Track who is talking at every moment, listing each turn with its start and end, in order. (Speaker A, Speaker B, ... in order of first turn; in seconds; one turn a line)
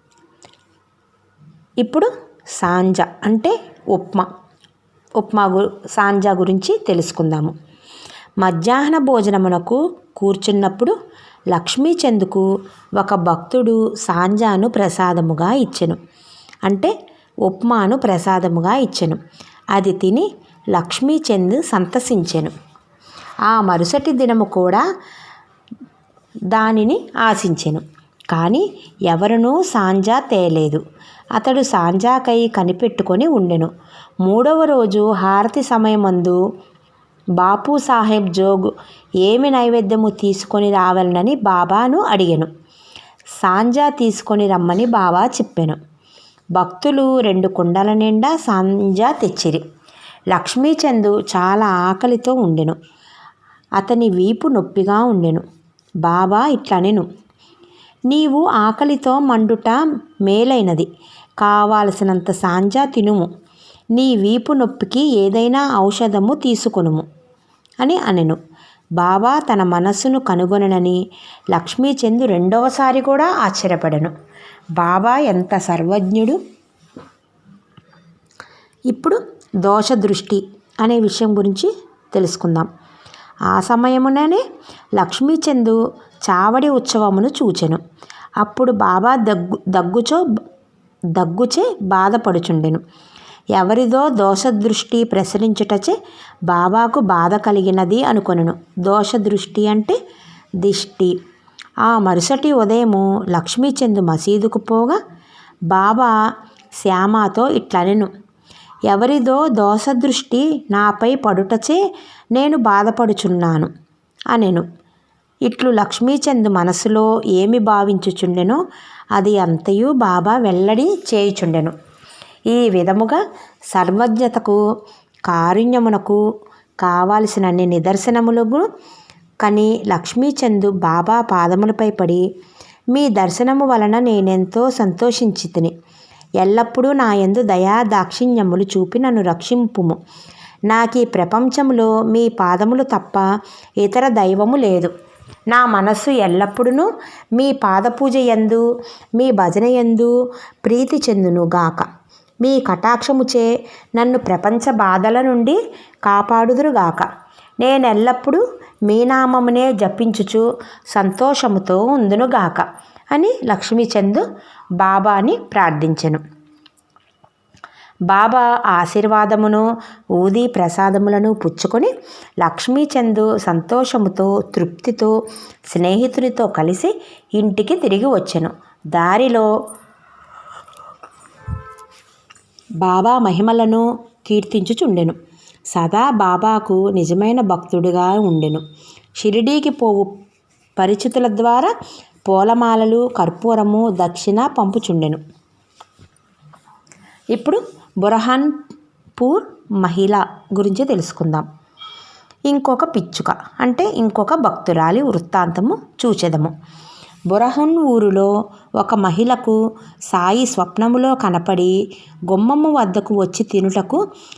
Speaker A: 1.8-4.3
Speaker A: 5.2-7.5
Speaker A: 8.4-10.9
Speaker A: 11.5-12.5
Speaker A: 13.0-16.0
Speaker A: 16.7-16.9
Speaker A: 17.5-19.2
Speaker A: 19.8-22.5
Speaker A: 23.5-24.8
Speaker A: 26.5-30.8
Speaker A: 31.4-33.7
Speaker A: 34.2-36.4
Speaker A: 37.4-38.7
Speaker A: 39.2-42.5
Speaker A: 43.4-45.8
Speaker A: 46.6-49.6
Speaker A: 50.3-52.8
Speaker A: 53.8-55.4
Speaker A: 56.0-57.1
Speaker A: 58.1-60.9
Speaker A: 61.4-63.3
Speaker A: 63.9-67.1
Speaker A: 67.8-68.4
Speaker A: 69.0-71.0
Speaker A: 71.5-74.1
Speaker A: 74.8-76.4
Speaker A: 78.9-82.7
Speaker A: 83.5-84.4
Speaker A: 85.0-87.8
Speaker A: 88.4-90.2
Speaker A: 91.2-92.8
Speaker A: 93.6-96.0
Speaker A: 96.5-100.0
Speaker A: 100.6-101.2
Speaker A: 101.8-105.0
Speaker A: 105.7-106.1
Speaker A: 106.8-108.1
Speaker A: 108.9-111.8
Speaker A: 112.3-113.7
Speaker A: 114.3-114.7
Speaker A: 115.5-118.6
Speaker A: 119.2-121.7
Speaker A: 122.5-123.2
Speaker A: 123.7-124.6
Speaker A: 125.3-126.2
Speaker A: 126.8-128.7
Speaker A: 129.4-132.2
Speaker A: 132.9-135.7
Speaker A: 136.4-140.0
Speaker A: 140.7-143.2
Speaker A: 143.8-144.9
Speaker A: 145.5-148.7
Speaker A: 149.2-150.1
Speaker A: 150.6-151.9
Speaker A: 152.4-157.1
Speaker A: 157.6-164.3
Speaker A: 164.8-166.2
Speaker A: 168.1-175.1
Speaker A: 175.7-179.5
Speaker A: 182.8-185.2
Speaker A: 185.7-188.6
Speaker A: 189.2-190.1
Speaker A: 190.8-191.7
Speaker A: 192.3-195.2
Speaker A: 197.3-198.6
Speaker A: 199.2-201.5
Speaker A: 202.5-206.5
Speaker A: 207.3-209.6
Speaker A: 210.1-211.8
Speaker A: 212.3-214.0